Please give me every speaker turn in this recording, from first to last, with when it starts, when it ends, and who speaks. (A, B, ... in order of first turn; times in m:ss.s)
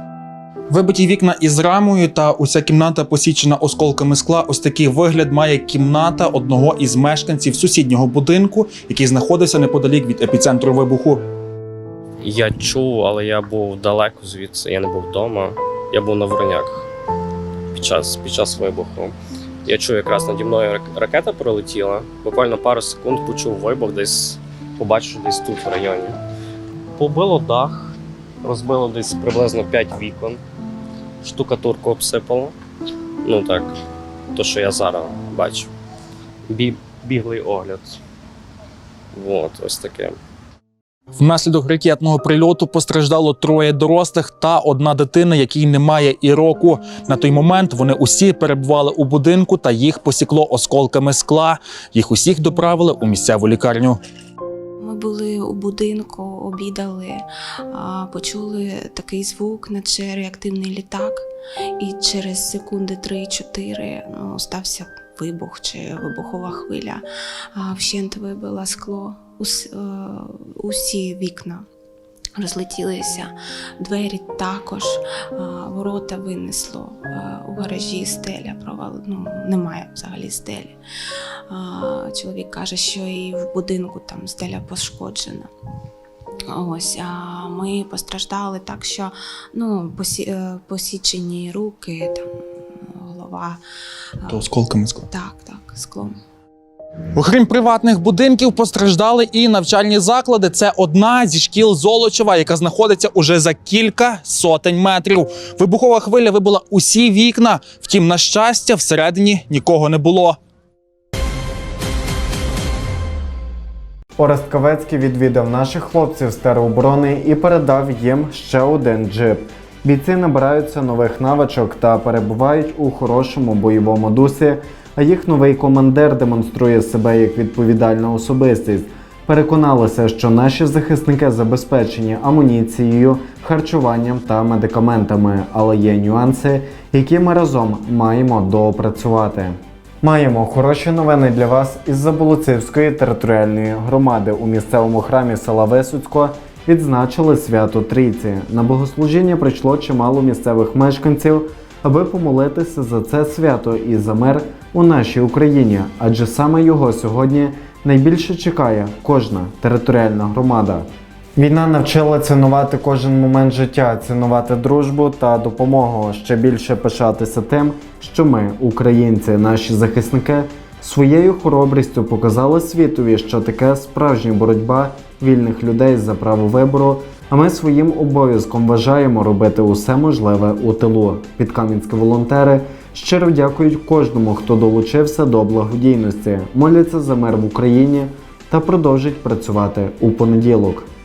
0:00.7-0:11.2 A
0:12.2-0:16.8 B
0:17.7-0:26.2 B
0:27.0-0:30.4 B
0:31.2-0:32.5 B
0:33.2-0:33.7 B
0:34.3-0:35.7 B
0:36.5-0:38.0 B
0:39.1-0:40.2 B
0:41.2-0:54.0 A
0:54.8-1:01.3 C
1:01.8-1:07.0 C
1:07.6-1:11.6 C
1:12.4-1:20.8 C
1:21.5-1:25.5 C
1:26.5-1:32.2 C
1:33.1-1:33.6 C
1:34.3-1:35.1 A
1:35.1-1:36.1 C
1:37.2-1:50.4 A
1:54.2-3:10.9 D